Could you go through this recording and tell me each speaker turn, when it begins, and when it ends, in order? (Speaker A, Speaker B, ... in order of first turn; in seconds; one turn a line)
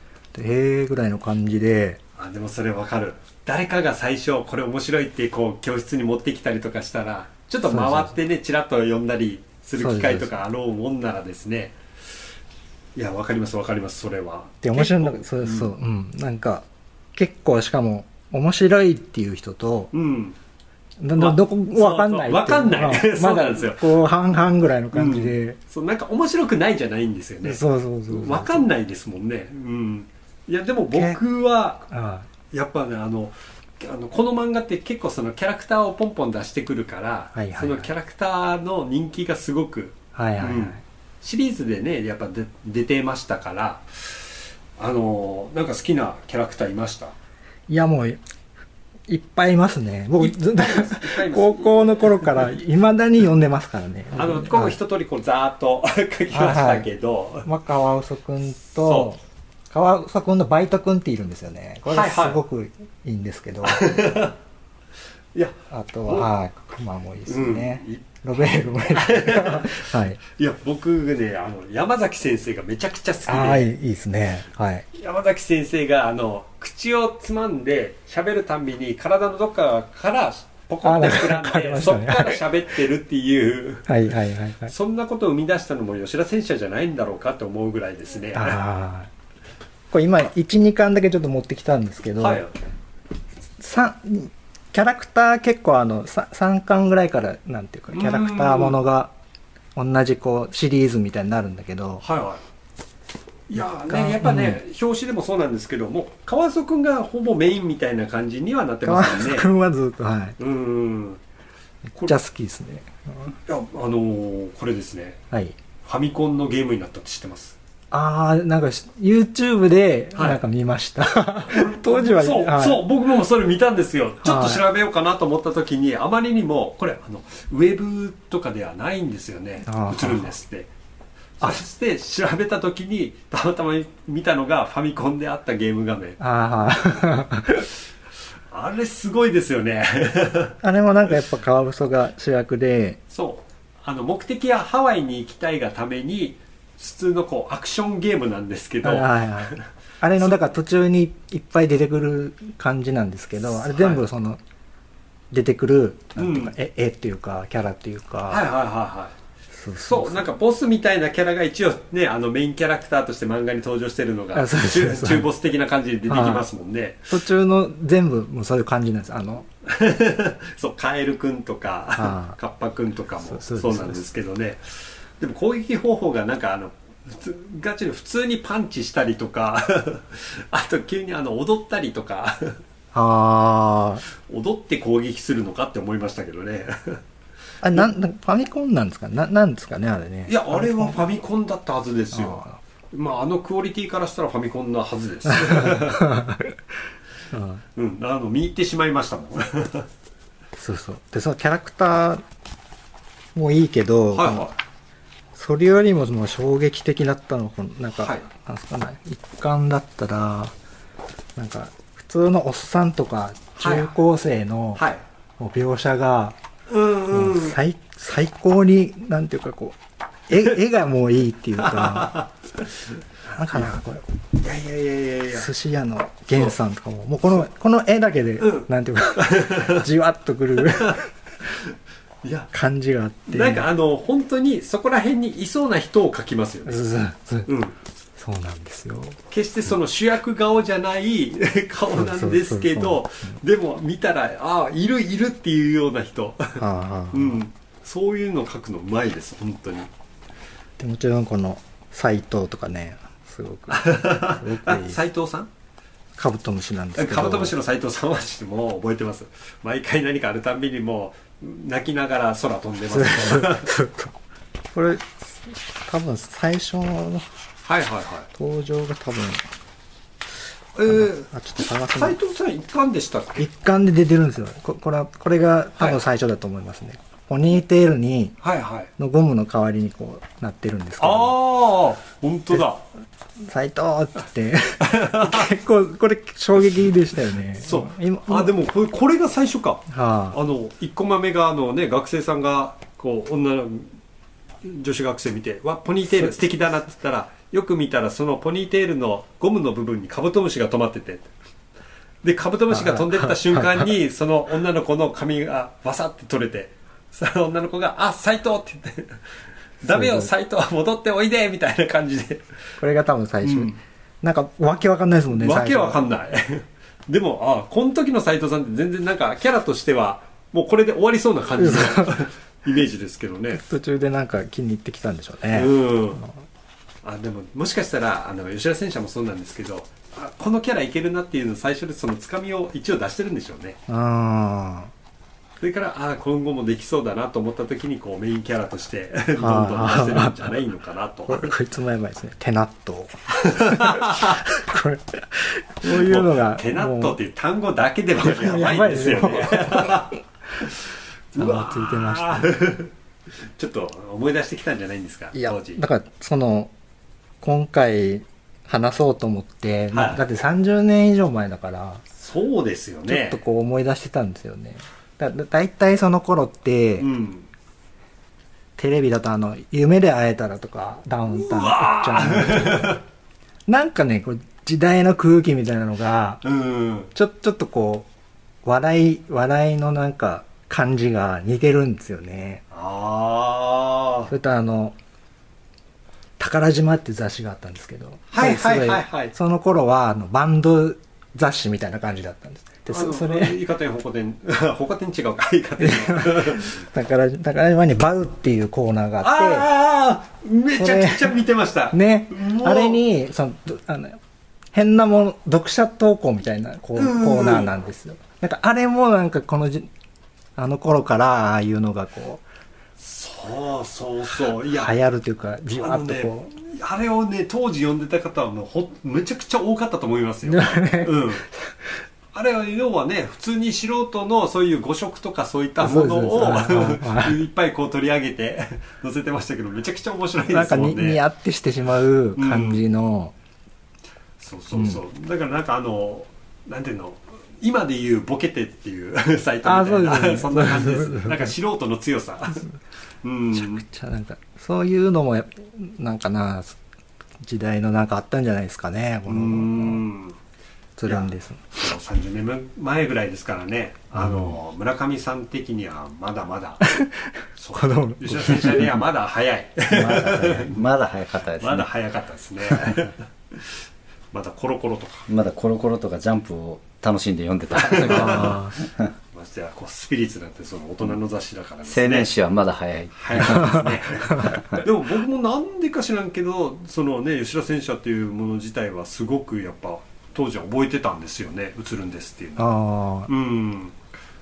Speaker A: 0.3-2.0
Speaker B: 2.2-11.8
Speaker A: 7.7-8.2
Speaker A: 9.8-10.3
Speaker B: 12.9-15.7
Speaker A: 14.6-19.9
Speaker B: 19.9-20.4
Speaker A: 21.0-25.6
Speaker B: 21.2-23.9
Speaker B: 24.9-31.9
Speaker A: 27.4-28.7
Speaker A: 30.9-31.2
Speaker A: 31.9-32.3
Speaker B: 32.5-47.1
Speaker A: 37.4-37.9
Speaker A: 40.1-40.8
Speaker A: 47.7-48.2
Speaker A: 49.1-54.8
Speaker B: 50.2-52.5
Speaker B: 54.2-57.5
Speaker A: 56.3-56.9
Speaker A: 57.5-59.2
Speaker B: 58.8-59.1
Speaker A: 59.7-63.9
Speaker B: 61.9-62.4
Speaker B: 63.6-64.3
Speaker B: 65.3-66.3
Speaker A: 65.7-70.2
Speaker B: 67.3-68.2
Speaker B: 68.9-73.7
Speaker A: 73.3-74.8
Speaker B: 74.9-83.9
Speaker A: 80.8-82.5
Speaker A: 83.9-84.7
Speaker B: 84.7-88.6
Speaker A: 88.3-89.1
Speaker A: 89.9-92.4
Speaker B: 92.2-92.6
Speaker A: 93.6-99.1
Speaker B: 97.9-98.8
Speaker A: 99.8-102.0
Speaker B: 102.0-102.4
Speaker B: 103.5-109.5
Speaker A: 103.9-104.6
Speaker A: 108.8-110.4
Speaker B: 110.4-111.2
Speaker A: 112.0-113.3
Speaker B: 113.5-115.2
Speaker A: 115.3-115.6
Speaker B: 115.8-117.6
Speaker A: 117.9-122.8
Speaker B: 120.2-120.4
Speaker B: 121.5-130.7
Speaker A: 124.2-124.6
Speaker A: 129.7-130.3
Speaker B: 131.4-136.2
Speaker A: 136.2-137.7
Speaker B: 138.5-140.6
Speaker A: 140.6-143.0
Speaker B: 143.1-149.7
Speaker A: 148.8-154.4
Speaker B: 153.4-154.0
Speaker A: 155.3-158.4
Speaker B: 156.2-156.5
Speaker B: 158.3-159.2
Speaker A: 159.5-160.2
Speaker B: 159.8-167.1
Speaker A: 164.3-165.3
Speaker A: 166.1-166.5
Speaker A: 167.1-169.5
Speaker B: 169.7-182.6
Speaker A: 172.0-172.4
Speaker A: 173.2-174.0
Speaker A: 182.9-184.1
Speaker B: 184.3-187.0
Speaker A: 187.6-191.0
Speaker B: 190.3-196.1
Speaker A: 192.1-192.6
Speaker A: 195.4-196.6
Speaker A: 197.3-197.6
Speaker B: 197.8-199.9
Speaker A: 200.6-202.2
Speaker A: 203.3-204.5
Speaker B: 204.1-204.5
Speaker A: 205.3-210.5
Speaker B: 208.0-208.3
Speaker A: 211.3-214.8
Speaker B: 213.6-213.9
Speaker B: 214.8-215.0
Speaker A: 215.4-216.4
Speaker B: 216.7-217.6
Speaker A: 217.1-219.8
Speaker A: 220.3-222.2
Speaker B: 221.6-222.3
Speaker A: 223.2-224.1
Speaker B: 224.4-225.5
Speaker A: 225.3-231.1
Speaker B: 228.4-229.8
Speaker B: 232.2-232.5
Speaker A: 232.5-233.7
Speaker B: 233.3-236.8
Speaker A: 236.7-237.5
Speaker B: 237.5-237.8
Speaker A: 238.2-239.2
Speaker B: 239.3-249.9
Speaker A: 241.9-243.4
Speaker A: 246.6-247.4
Speaker A: 250.8-255.0
Speaker B: 253.7-255.5
Speaker A: 256.2-257.5
Speaker B: 257.0-263.7
Speaker A: 262.9-264.1
Speaker A: 264.7-267.3
Speaker B: 267.6-268.3
Speaker A: 268.3-269.4
Speaker B: 270.8-273.5
Speaker A: 270.9-272.2
Speaker A: 273.4-278.4
Speaker B: 278.4-278.9
Speaker A: 279.0-281.4
Speaker B: 281.0-282.8
Speaker A: 283.4-288.5
Speaker B: 284.8-285.5
Speaker B: 287.6-294.0
Speaker A: 289.9-290.4
Speaker B: 294.6-301.3
Speaker B: 302.2-309.2
Speaker A: 302.7-303.9
Speaker B: 309.8-312.5
Speaker A: 309.8-310.3
Speaker A: 312.8-316.0
Speaker B: 313.4-313.8
Speaker B: 315.4-323.6
Speaker A: 321.6-322.2
Speaker A: 323.6-326.3
Speaker B: 325.5-326.2
Speaker B: 327.0-333.8
Speaker A: 333.9-334.9
Speaker B: 335.6-341.5
Speaker A: 339.4-340.5
Speaker A: 341.3-347.2
Speaker B: 343.3-344.4
Speaker B: 345.8-355.8
Speaker A: 348.2-350.1
Speaker A: 351.4-352.5
Speaker A: 355.3-356.7
Speaker A: 357.4-362.0
Speaker B: 359.9-360.2
Speaker B: 362.2-363.4
Speaker A: 363.1-367.1
Speaker B: 367.0-367.5
Speaker A: 368.8-373.0
Speaker B: 371.3-373.0
Speaker A: 373.7-376.4
Speaker B: 376.4-377.1
Speaker A: 377.1-378.1
Speaker A: 378.6-382.6
Speaker B: 382.7-384.3
Speaker A: 384.3-385.0
Speaker A: 386.4-393.6
Speaker B: 388.3-389.3
Speaker B: 392.9-396.8
Speaker A: 395.8-399.7
Speaker B: 399.2-403.0
Speaker A: 400.7-401.4
Speaker A: 401.9-404.2
Speaker A: 404.7-409.9
Speaker B: 407.0-407.7
Speaker A: 410.6-412.4
Speaker B: 413.0-414.9
Speaker A: 414.7-416.5
Speaker B: 415.7-421.5
Speaker A: 420.5-421.7
Speaker B: 422.3-431.2
Speaker A: 425.8-427.4
Speaker A: 430.5-433.3
Speaker B: 432.4-432.8
Speaker B: 434.4-442.7
Speaker A: 434.7-435.0
Speaker A: 439.6-441.5
Speaker B: 443.2-443.8
Speaker A: 443.5-446.8
Speaker A: 447.4-450.1
Speaker B: 449.3-450.4
Speaker A: 451.0-451.9
Speaker B: 451.1-456.9
Speaker A: 454.1-454.6
Speaker A: 456.9-459.0
Speaker B: 457.6-460.8
Speaker A: 459.9-460.8
Speaker C: 460.7-461.9
Speaker B: 461.6-463.8
Speaker B: 464.3-465.3
Speaker C: 465.3-468.6
Speaker B: 467.8-468.6
Speaker A: 468.1-468.8
Speaker B: 469.3-472.3
Speaker C: 471.9-474.8
Speaker B: 473.1-482.7
Speaker A: 473.4-473.7
Speaker A: 474.3-474.6
Speaker A: 482.6-483.3
Speaker B: 483.3-484.0